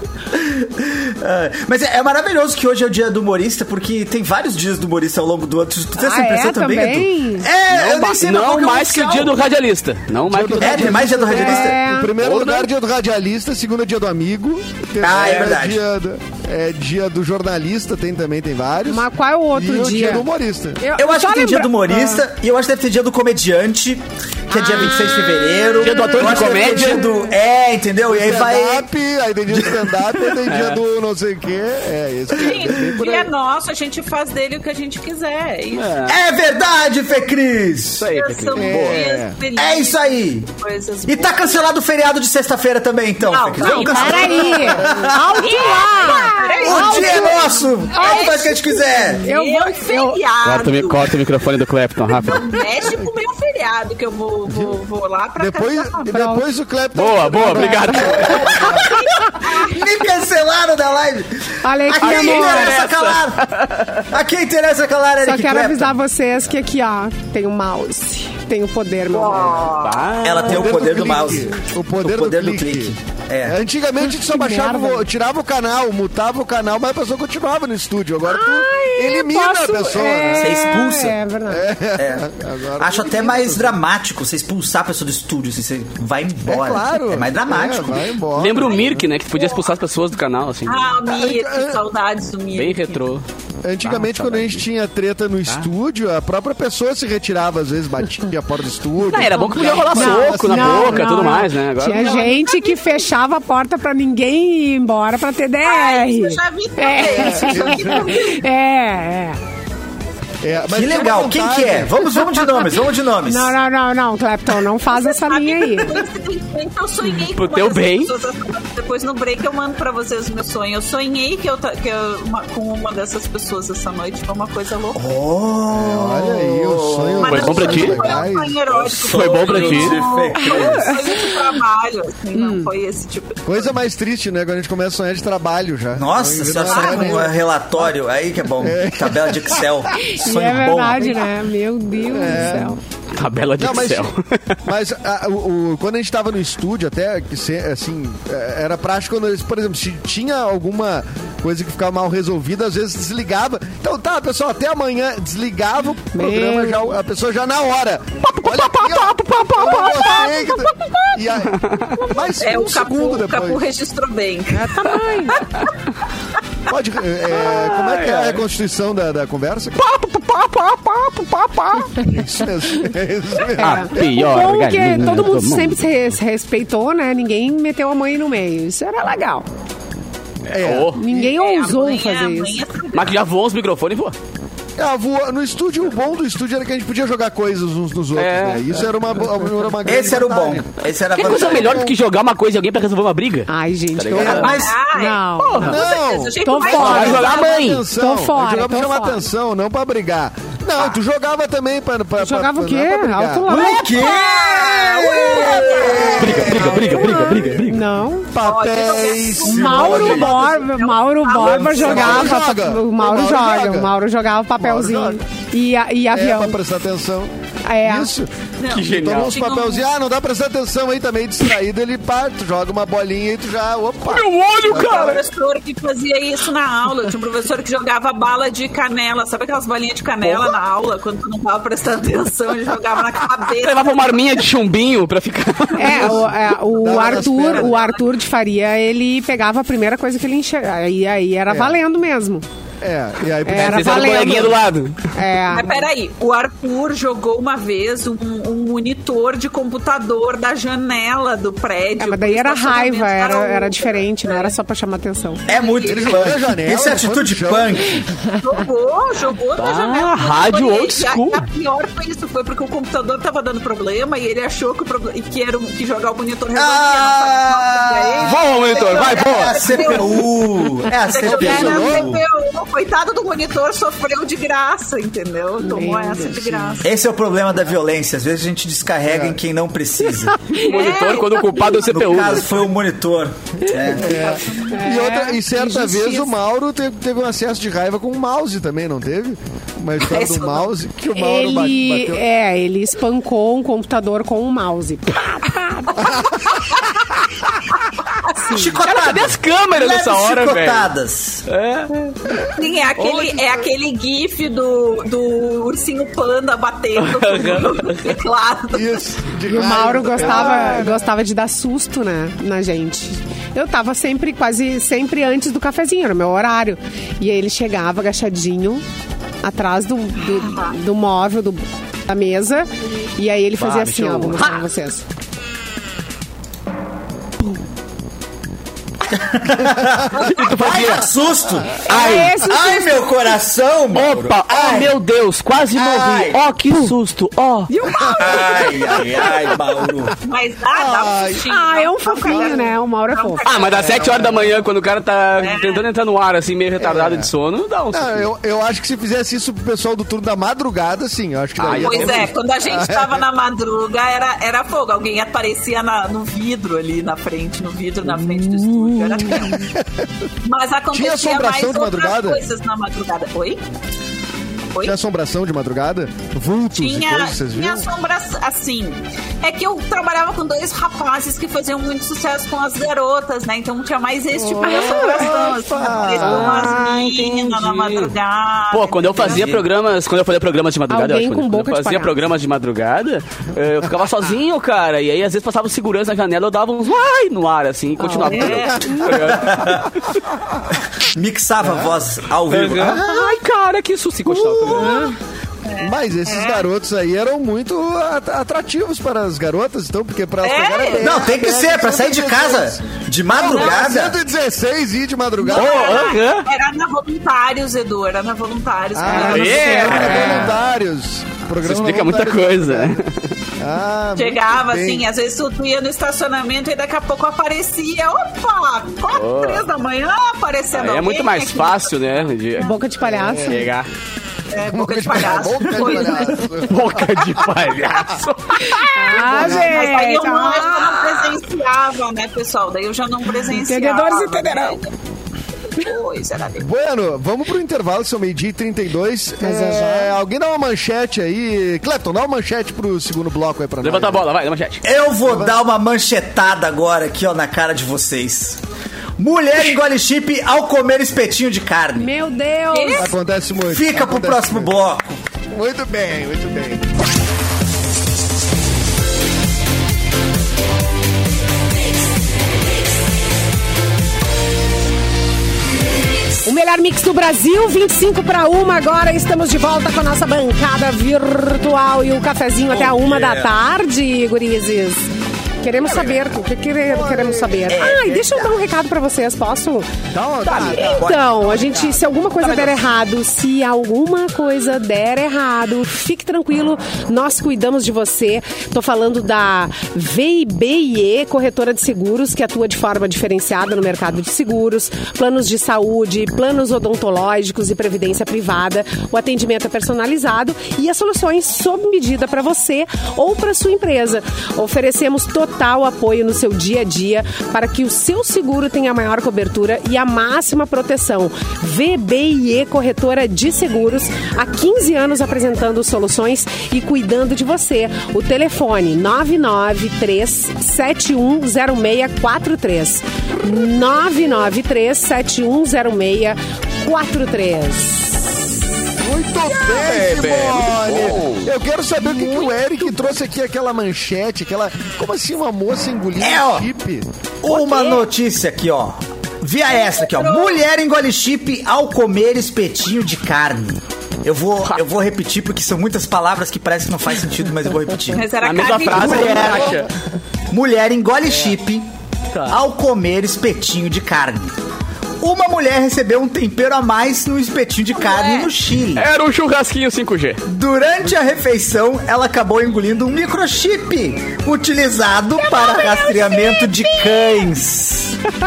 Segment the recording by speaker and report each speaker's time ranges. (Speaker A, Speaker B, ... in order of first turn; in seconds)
Speaker A: 0.3-9.4, 10.6-11.8, 15.0-15.8, 21.0-28.9, 29.5-30.4, 32.4-32.8, 36.1-38.1, 39.6-40.5, 41.1-49.2, 58.0-63.5, 64.1-66.0, 70.2-73.6, 80.4-81.2, 82.0-82.3, 82.8-88.1, 110.7-113.5, 125.0-131.0, 135.9-141.3, 189.8-191.9, 194.3-194.7, 203.5-206.8, 209.4-210.6, 211.4-212.3, 255.5-258.1, 266.6-272.2, 276.8-280.5, 281.8-284.2, 298.5-301.5, 329.1-335.0, 335.7-336.4, 338.2-340.2, 379.2-379.7, 389.1-389.9, 391.0-393.3, 394.3-394.9, 401.0-404.2, 409.9-410.4, 444.8-448.6, 449.2-452.1, 453.7-455.2, 472.7-473.5, 477.7-478.6, 480.6-482.8, 529.9-530.2, 536.2-536.7, 537.4-549.9, 550.5-551.9, 552.5-554.6, 555.2-559.1, 560.5-568.2
Speaker B: 6.0-7.5, 11.3-12.1, 18.9-20.3, 20.8-22.2, 24.5-27.2, 43.6-50.2, 56.1-56.5, 57.4-58.3, 61.6-62.8, 65.2-69.8, 74.0-75.1, 78.2-81.7, 99.4-109.4, 113.2-116.0, 130.3-131.4, 132.3-132.7, 140.0-142.8, 156.1-156.9, 164.5-165.4, 173.6-179.5, 180.9-182.6, 193.5-195.8, 196.4-199.3, 202.2-208.3, 209.5-216.6, 217.7-218.1, 235.8-242.4, 243.4-244.6, 245.1-245.9, 252.0-255.4, 275.6-276.9, 280.5-280.7, 284.7-286.3, 291.1-296.3, 298.4-298.8, 309.5-318.8, 319.4-325.1, 331.8-333.1, 337.7-339.5, 341.5-343.5, 374.6-375.3, 376.4-376.9, 380.9-382.2, 388.0-389.0, 394.7-395.2, 409.1-410.5, 422.6-423.7, 428.7-431.3, 433.5-434.8, 439.4-440.2, 452.0-453.1, 466.4-475.1, 475.6-479.9, 480.8-528.5
Speaker C: 7.7-12.7, 25.8-27.1, 30.5-30.8, 35.7-36.2, 38.0-39.0, 50.4-52.5, 57.0-58.6, 62.0-64.0, 69.7-70.8, 88.3-90.9, 92.5-93.2, 93.8-94.7, 99.0-102.3, 117.2-118.1, 127.3-128.2, 129.1-130.0, 143.1-144.6, 158.4-160.3, 161.5-162.0, 167.3-168.4, 169.8-172.0, 173.6-175.8, 180.5-181.0, 182.9-184.2, 188.2-188.7, 191.1-194.6, 195.4-195.8, 196.7-197.8, 206.2-207.9, 218.7-219.4, 224.1-225.2, 233.6-236.2, 243.6-245.1, 259.6-261.4, 268.2-269.9, 280.5-282.5, 298.8-300.9, 301.5-302.4, 303.0-303.4, 307.0-308.1, 310.3-310.9, 323.6-324.6, 330.2-331.1, 331.9-332.4, 333.9-337.7, 343.4-348.3, 351.6-352.3, 376.2-378.1, 378.7-389.9, 392.5-395.1, 405.5-406.5, 409.1-410.5, 411.6-413.3, 419.1-419.6, 420.7-422.8, 423.4-423.9, 426.6-429.6, 443.8-444.8, 475.9-476.3, 480.5-480.8, 530.0-531.5, 548.4-549.9, 559.0-560.4
Speaker D: 10.3-20.8, 28.1-33.3, 38.5-39.4, 54.5-54.8, 55.4-58.9, 70.4-80.5, 81.5-83.8, 86.5-89.1, 91.1-91.8, 93.6-101.3, 107.2-108.2, 110.4-112.3, 125.7-128.6, 133.4-137.4, 138.6-140.1, 142.0-142.8, 143.6-144.1, 144.6-163.6, 166.7-169.8, 172.0-174.3, 180.5-181.3, 184.8-190.7, 191.2-191.9, 194.1-194.6, 195.6-203.5, 206.0-207.4, 208.3-210.2, 211.4-213.9, 214.6-215.2, 216.1-218.3, 218.8-225.2, 235.9-237.8, 241.5-241.8, 242.8-244.5, 255.8-257.9, 271.2-272.2, 279.1-279.4, 283.9-292.2, 296.0-296.4, 308.7-311.0, 340.7-341.5, 342.3-342.6, 343.8-344.5, 346.8-347.3, 347.9-353.2, 359.2-360.1, 360.9-362.4, 364.8-367.9, 374.5-376.7, 388.3-389.3, 391.6-392.0, 395.8-406.2, 408.9-412.9, 413.6-415.1, 423.0-423.7, 424.7-428.2, 429.2-429.8, 436.6-444.2, 445.2-445.6, 452.9-454.7, 455.5-456.9, 476.8-477.8, 480.1-481.1, 529.0-537.1
Speaker E: 32.4-36.2, 38.1-41.7, 43.2-51.2, 52.1-56.3, 58.6-59.9, 69.1-70.1, 88.5-88.9, 89.4-89.7, 90.7-93.0, 102.0-103.1, 105.6-108.4, 114.9-125.0, 127.2-133.8, 136.6-137.4, 162.4-165.4, 181.2-183.2, 194.2-197.6, 203.9-206.8, 208.3-212.3, 218.6-219.9, 224.7-234.4, 236.7-238.0, 245.5-254.5, 255.5-256.3, 258.4-276.9, 280.6-281.7, 283.7-285.0, 290.0-290.7, 302.5-309.0, 320.3-320.8, 338.1-339.2, 340.2-344.3, 345.4-345.9, 351.8-359.7, 360.4-363.6, 366.8-379.5, 388.2-389.0, 395.7-396.6, 400.4-401.2, 403.4-403.9, 405.4-410.2, 414.1-421.9, 424.5-426.5, 429.1-434.9, 435.7-436.7, 452.7-453.1, 480.5-480.9, 539.7-540.6, 548.1-549.8, 557.9-558.5, 565.4-567.5